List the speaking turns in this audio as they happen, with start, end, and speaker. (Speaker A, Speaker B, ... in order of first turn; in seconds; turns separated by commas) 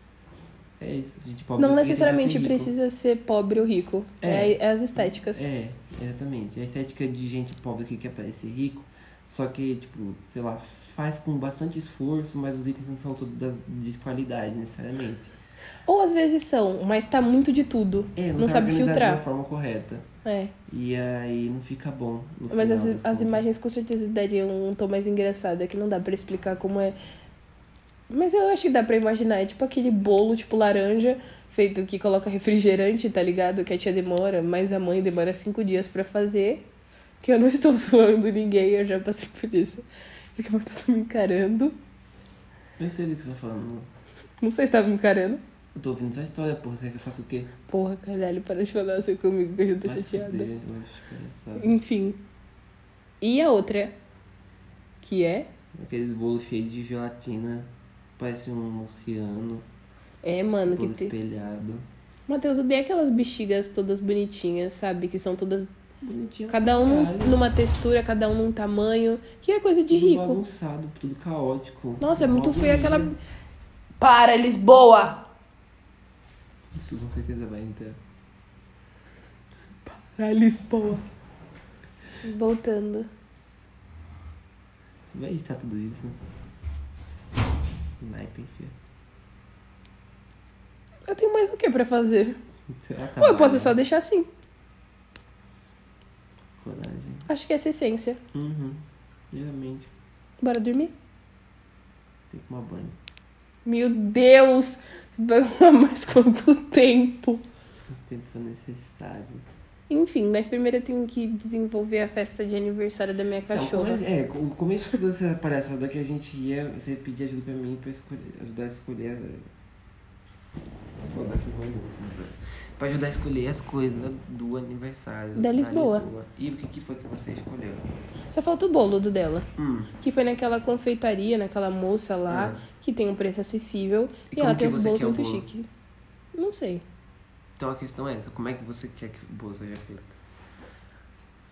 Speaker A: 0.8-2.7, Speaker B: 1.6-5.5, Speaker A: 4.2-15.3, Speaker B: 15.8-19.2, Speaker A: 18.1-20.1, Speaker B: 20.2-20.5, Speaker A: 20.7-23.5, Speaker B: 22.5-27.0, Speaker B: 28.1-36.7, Speaker B: 37.2-41.8, Speaker A: 42.8-43.9, Speaker B: 44.4-45.4, Speaker A: 45.7-47.5, Speaker B: 47.7-50.5, Speaker A: 49.8-51.8, Speaker B: 51.6-52.2, Speaker B: 53.2-54.0, Speaker B: 55.0-55.5, Speaker A: 55.7-59.6, Speaker B: 60.2-61.1, Speaker A: 60.6-61.9, Speaker B: 62.3-65.7, Speaker A: 66.0-67.4, Speaker B: 66.5-70.4, Speaker A: 69.9-73.1, Speaker B: 72.0-73.2, Speaker B: 74.0-75.2, Speaker A: 76.7-78.0, Speaker B: 79.8-81.0, Speaker B: 82.2-83.1, Speaker A: 85.1-86.2, Speaker A: 88.0-88.7, Speaker B: 91.1-92.4, Speaker A: 92.7-93.8, Speaker B: 93.2-94.3, Speaker A: 96.6-97.3, Speaker B: 97.3-98.2, Speaker A: 98.3-99.9, Speaker B: 100.4-100.9, Speaker A: 102.3-103.0, Speaker B: 103.6-107.4, Speaker A: 108.0-109.5, Speaker B: 109.9-114.0, Speaker A: 113.5-119.5, Speaker A: 121.0-127.9, Speaker B: 125.3-126.0, Speaker B: 128.3-129.5, Speaker A: 129.6-129.9, Speaker B: 130.0-135.7, Speaker A: 132.3-132.7, Speaker A: 134.3-135.5, Speaker B: 136.3-136.8, Speaker A: 137.6-140.2